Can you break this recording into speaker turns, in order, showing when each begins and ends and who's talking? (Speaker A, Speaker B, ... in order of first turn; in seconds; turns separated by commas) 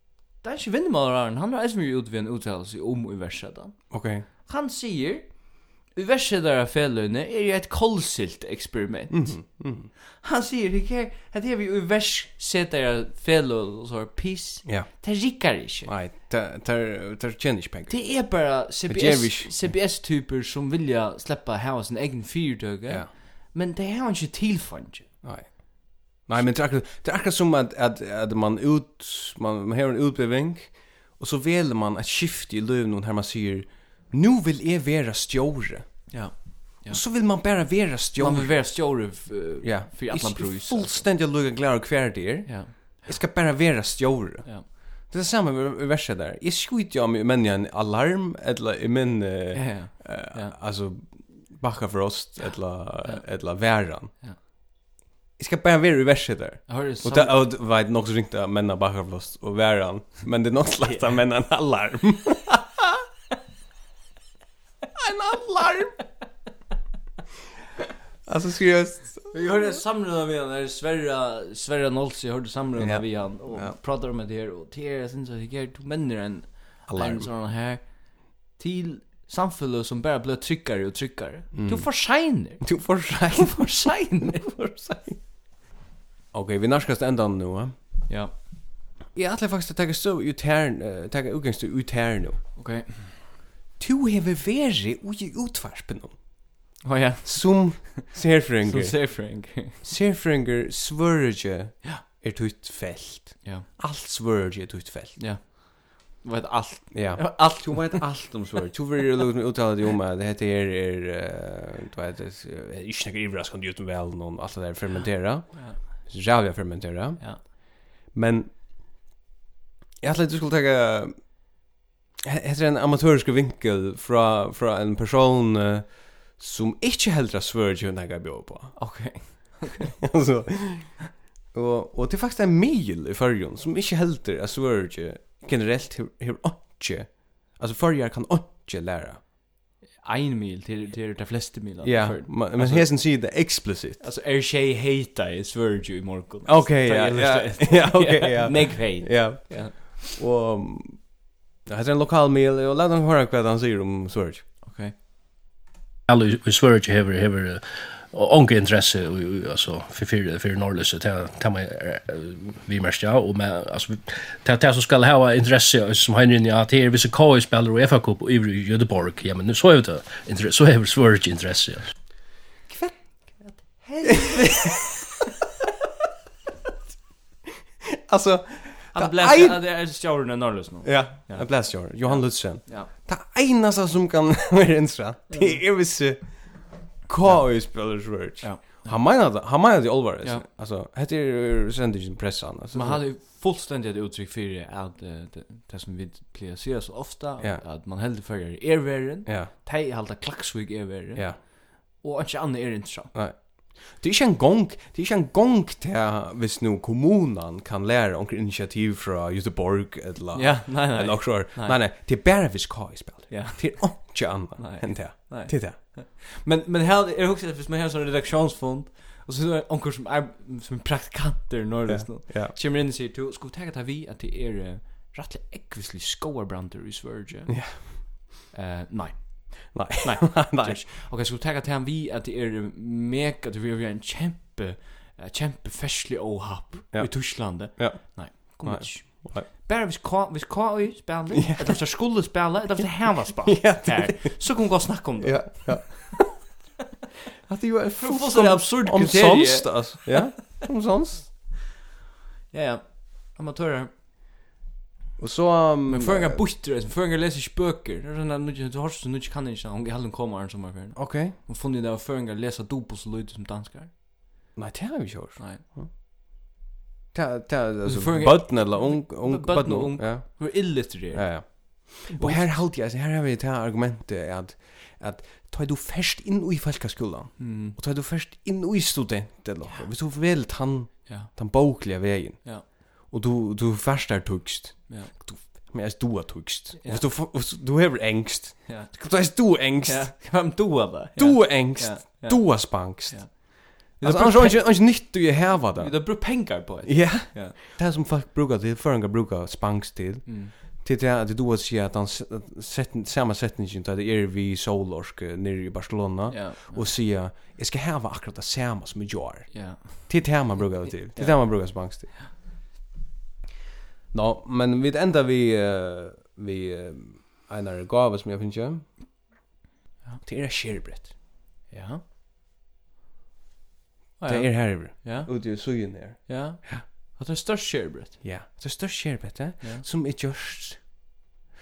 Speaker A: 0.4-3.9, Speaker B: 3.9-4.2, Speaker A: 4.4-9.4, Speaker B: 9.1-9.9, Speaker A: 10.2-15.9, Speaker B: 14.7-14.9, Speaker B: 15.8-19.8, Speaker A: 17.9-25.1, Speaker B: 25.2-36.2, Speaker A: 36.1-37.0, Speaker B: 36.9-38.9, Speaker A: 38.2-41.0, Speaker B: 39.6-54.1, Speaker A: 42.5-43.1, Speaker A: 49.5-50.6, Speaker A: 53.0-54.4, Speaker B: 55.4-63.0, Speaker A: 56.7-57.5, Speaker A: 60.8-61.2, Speaker B: 65.0-66.0, Speaker B: 68.3-69.3, Speaker A: 69.3-84.8, Speaker B: 72.8-73.8, Speaker B: 76.9-77.3, Speaker B: 81.5-85.2, Speaker B: 86.3-87.8, Speaker B: 89.1-92.4, Speaker A: 92.6-93.2, Speaker B: 93.8-96.4, Speaker A: 96.8-99.8, Speaker B: 97.2-105.2, Speaker A: 105.2-108.1, Speaker B: 106.9-118.5, Speaker A: 115.5-115.8, Speaker B: 120.0-121.4, Speaker B: 122.2-129.4, Speaker A: 128.8-129.9, Speaker B: 130.0-139.2, Speaker A: 140.0-150.1, Speaker B: 141.8-144.0, Speaker B: 146.5-154.4, Speaker A: 154.6-154.9, Speaker C: 156.1-171.9, Speaker A: 172.7-174.9, Speaker B: 174.3-174.5, Speaker B: 178.0-179.6, Speaker A: 178.9-182.9, Speaker B: 180.8-193.1, Speaker A: 185.3-185.6, Speaker A: 188.4-189.0, Speaker A: 192.7-203.1, Speaker B: 199.3-199.5, Speaker B: 203.1-215.8, Speaker A: 210.3-211.8, Speaker A: 213.3-246.1, Speaker B: 221.9-222.5, Speaker B: 227.5-228.2, Speaker B: 229.7-230.8, Speaker B: 236.9-239.5, Speaker B: 241.3-241.8, Speaker B: 243.5-244.4, Speaker B: 245.2-246.4, Speaker B: 247.5-251.3, Speaker A: 248.0-250.3, Speaker A: 252.5-253.9, Speaker B: 255.2-256.4, Speaker A: 255.9-263.9, Speaker B: 261.0-261.4, Speaker B: 264.6-265.9, Speaker A: 265.4-265.6, Speaker B: 267.1-290.2, Speaker A: 267.9-272.6, Speaker A: 277.4-277.8, Speaker A: 279.6-279.9, Speaker A: 284.9-285.7, Speaker A: 286.8-287.1, Speaker A: 288.7-297.6, Speaker B: 291.2-312.2, Speaker A: 300.3-300.5, Speaker A: 306.3-306.9, Speaker A: 309.5-310.4, Speaker A: 311.1-312.1, Speaker B: 314.1-319.0, Speaker B: 320.2-321.1, Speaker A: 321.7-322.0, Speaker A: 324.2-328.2, Speaker B: 324.3-326.8, Speaker B: 328.2-331.1, Speaker A: 329.6-329.9